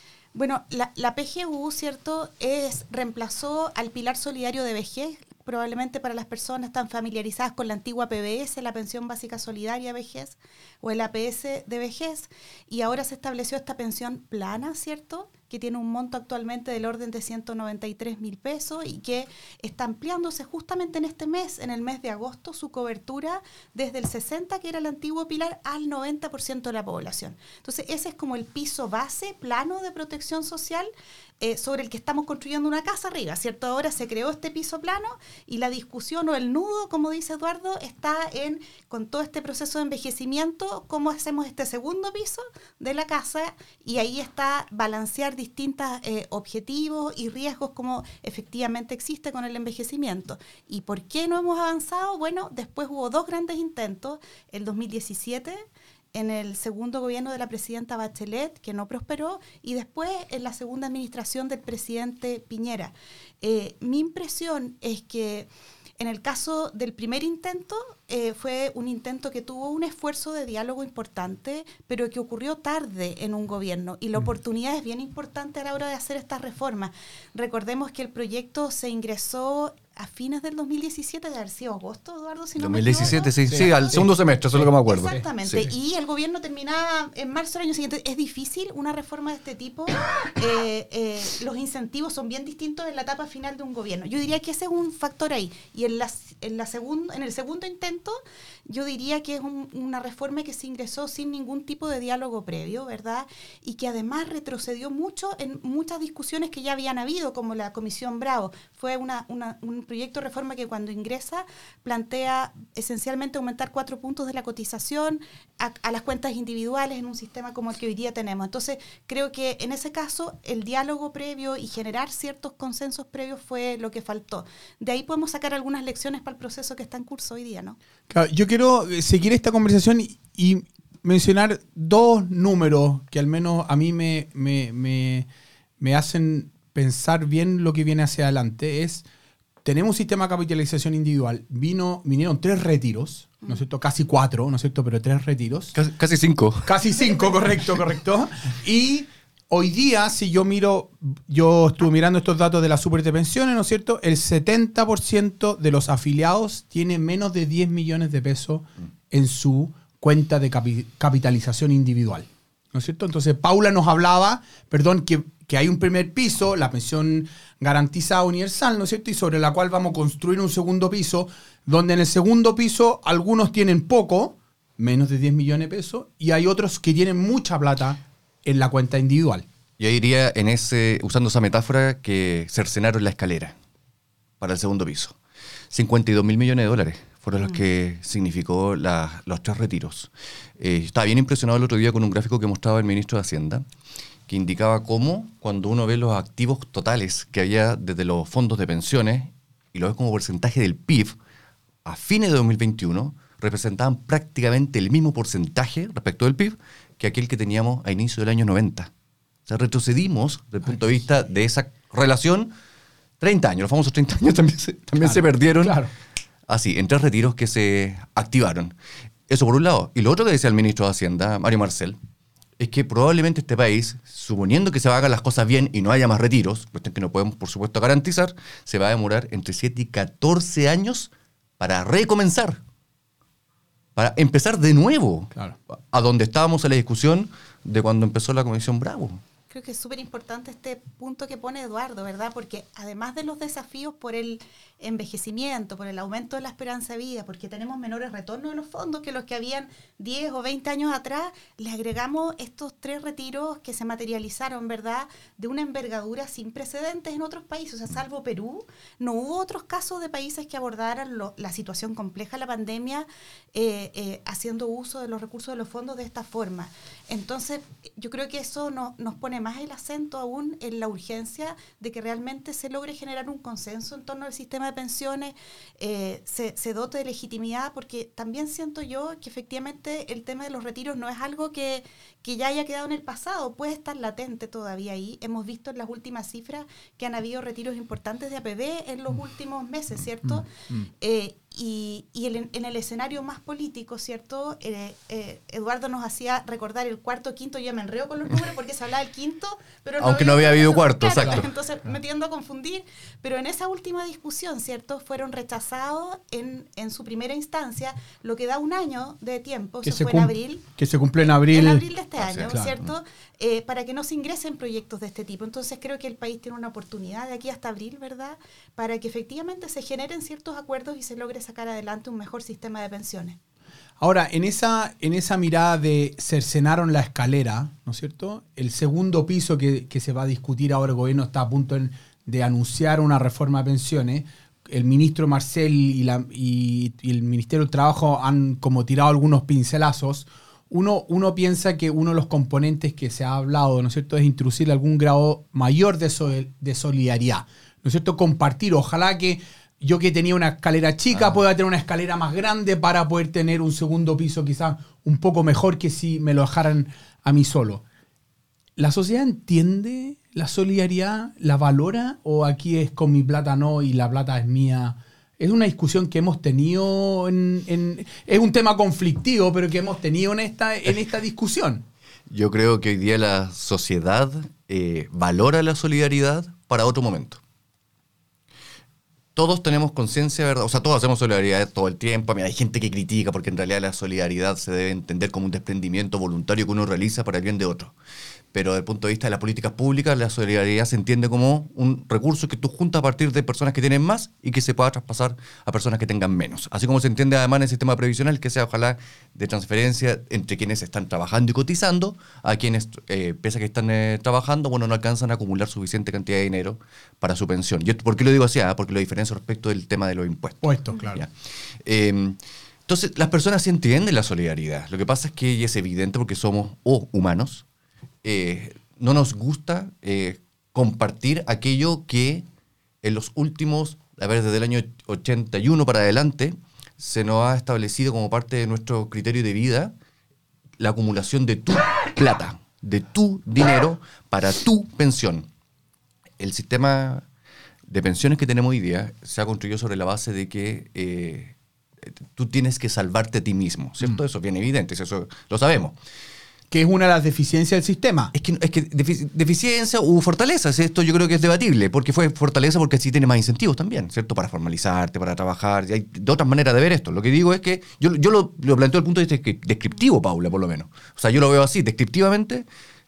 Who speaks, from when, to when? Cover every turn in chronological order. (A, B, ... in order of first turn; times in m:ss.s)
0:00.3-0:55.6 A
0:56.2-1:05.5 A
1:06.0-1:24.0 A
1:22.6-1:25.7 B
1:23.5-1:25.2 C
1:24.8-2:07.8 A
2:08.1-2:15.3 C
2:15.8-2:19.0 C
2:19.6-2:25.7 C
2:25.7-2:26.8 B
2:26.6-2:59.4 C
2:59.8-3:03.6 B
3:04.4-3:05.2 B
3:05.7-3:13.6 B
3:14.3-3:21.2 B
3:21.8-3:28.9 B
3:29.5-3:32.5 B
3:33.2-3:35.8 B
3:35.0-3:35.9 C
3:36.5-3:38.7 B
3:39.3-3:42.0 B
3:42.6-3:52.6 B
3:54.0-3:59.2 B
3:59.5-4:50.5 A
4:51.0-5:10.7 A
5:00.0-5:01.4 B
5:09.8-5:11.9 C
5:11.2-5:23.4 A
5:12.2-5:12.6 B
5:12.5-5:12.8 C
5:24.0-5:57.8 C
5:58.8-6:11.8 C
6:12.3-6:17.4 B
6:19.4-6:27.9 B
6:28.5-6:51.3 B
6:50.6-6:51.2 C
6:51.8-6:57.6 B
6:58.2-7:02.5 B
7:03.0-7:09.9 B
7:10.8-7:15.5 B
7:16.4-7:17.2 B
7:17.9-7:21.6 B
7:22.2-7:26.0 B
7:26.7-7:28.3 C
7:28.3-7:42.7 B